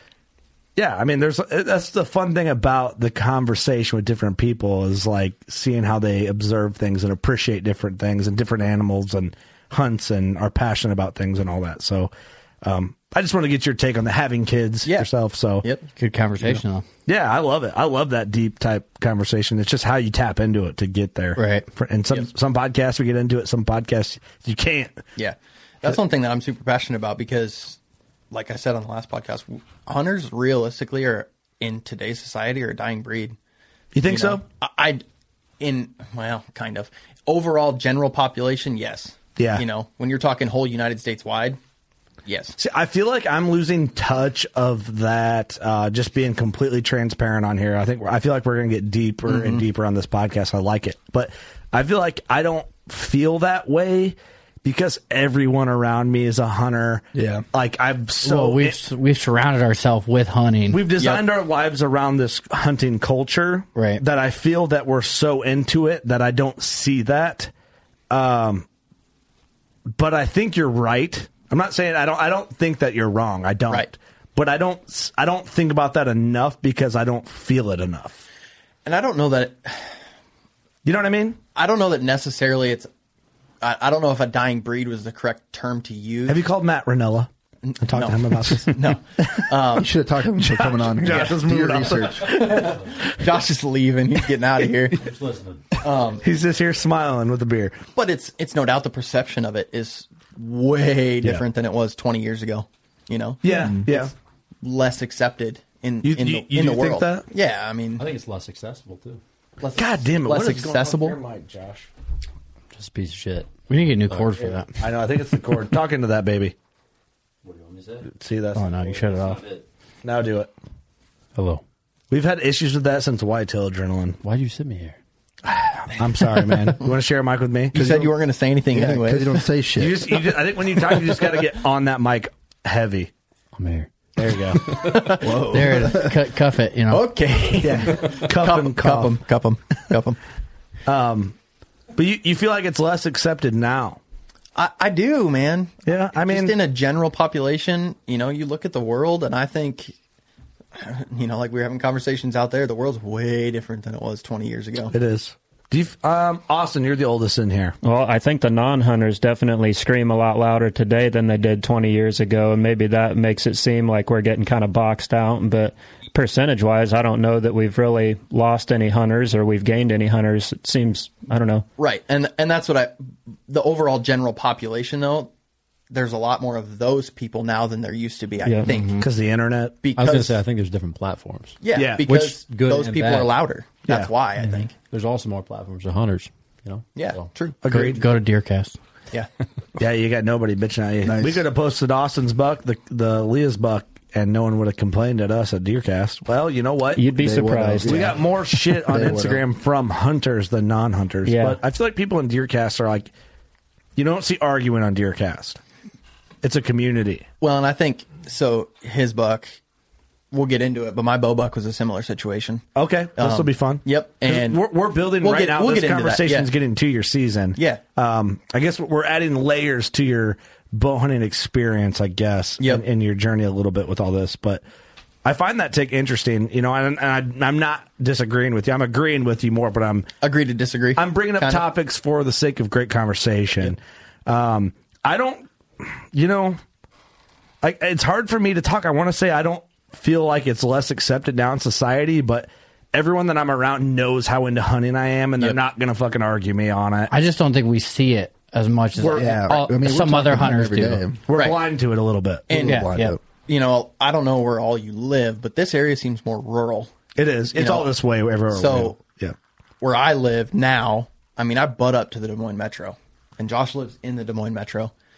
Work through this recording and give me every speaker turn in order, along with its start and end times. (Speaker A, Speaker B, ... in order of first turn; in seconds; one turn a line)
Speaker A: 0.8-12.1
Speaker A: 12.6-15.7
Speaker B: 15.6-15.9
Speaker C: 16.0-16.8
Speaker A: 16.5-25.0
Speaker C: 21.4-21.7
Speaker B: 25.1-27.8
Speaker B: 28.3-33.4
Speaker A: 33.9-34.4
Speaker B: 34.0-35.0
Speaker B: 35.6-41.6
Speaker A: 39.4-39.6
Speaker B: 42.2-42.6
Speaker A: 42.6-58.8
Speaker B: 49.3-49.6
Speaker D: 57.1-57.4
Speaker C: 58.2-60.8
Speaker A: 60.7-67.5
Speaker B: 61.0-61.2
Speaker C: 63.8-64.0
Speaker A: 68.1-68.7
Speaker A: 70.0-78.2
Speaker B: 78.8-80.0
Speaker A: 80.8-81.4
Speaker B: 81.5-82.9
Speaker B: 83.6-86.4
Speaker A: 86.3-87.3
Speaker B: 87.6-89.9
Speaker A: 87.8-89.4
Speaker D: 89.8-92.5
Speaker A: 90.5-92.9
Speaker B: 91.0-91.4
Speaker B: 92.4-95.0
Speaker E: 95.0-95.8
Speaker B: 95.8-96.2
Speaker A: 96.2-97.8
Speaker B: 97.9-104.1
Speaker A: 103.4-104.1
Speaker B: 104.6-108.0
Speaker A: 106.0-107.2
Speaker E: 108.0-109.2
Speaker B: 109.6-111.2
Speaker A: 109.8-111.9
Speaker E: 112.7-114.6
Speaker C: 113.7-114.7
Speaker A: 114.4-116.5
Speaker E: 117.4-118.1
Speaker A: 118.1-118.7
Speaker C: 118.5-119.4
Speaker E: 118.7-119.6
Speaker A: 120.0-120.5
Speaker E: 121.3-121.6
Speaker A: 122.1-124.2
Speaker E: 124.2-125.0
Speaker A: 125.5-128.0
Speaker B: 127.7-129.4
Speaker D: 127.8-128.0
Speaker D: 128.7-130.1
Speaker A: 129.8-133.1
Speaker E: 133.5-133.9
Speaker A: 134.2-134.6
Speaker E: 134.5-135.1
Speaker D: 135.2-136.1
Speaker C: 135.4-137.1
Speaker B: 136.9-140.2
Speaker A: 137.6-139.2
Speaker A: 140.8-141.3
Speaker A: 141.9-144.0
Speaker B: 144.6-149.9
Speaker A: 145.8-146.5
Speaker B: 150.7-154.9
Speaker A: 154.9-157.7
Speaker F: 157.8-171.6
Speaker B: 171.8-172.9
Speaker B: 173.5-175.3
Speaker B: 175.9-179.0
Speaker C: 178.7-179.1
Speaker A: 179.0-179.8
Speaker B: 179.8-180.4
Speaker E: 179.9-183.4
Speaker B: 181.6-184.7
Speaker A: 181.7-182.1
Speaker E: 184.4-187.3
Speaker B: 186.9-187.6
Speaker A: 187.6-188.0
Speaker C: 187.6-188.8
Speaker A: 189.8-197.1
Speaker D: 191.0-191.4
Speaker F: 196.9-198.1
Speaker D: 197.1-199.4
Speaker A: 197.8-203.1
Speaker F: 201.2-201.6
Speaker A: 203.9-205.6
Speaker A: 206.4-207.2
Speaker B: 207.4-209.6
Speaker B: 210.3-212.7
Speaker A: 212.7-224.6
Speaker B: 213.2-216.5
Speaker B: 217.6-217.8
Speaker A: 225.2-230.1
Speaker B: 230.2-231.6
Speaker A: 230.9-236.6
Speaker A: 237.6-247.1
Speaker C: 247.1-251.0
Speaker A: 249.0-249.5
Speaker D: 249.0-251.2
Speaker A: 251.3-252.9
Speaker B: 251.3-251.6
Speaker B: 252.5-252.9
Speaker C: 252.6-253.2
Speaker D: 252.6-253.2
Speaker B: 253.5-256.9
Speaker A: 257.1-259.3
Speaker B: 257.5-257.9
Speaker B: 258.5-259.0
Speaker B: 259.8-264.9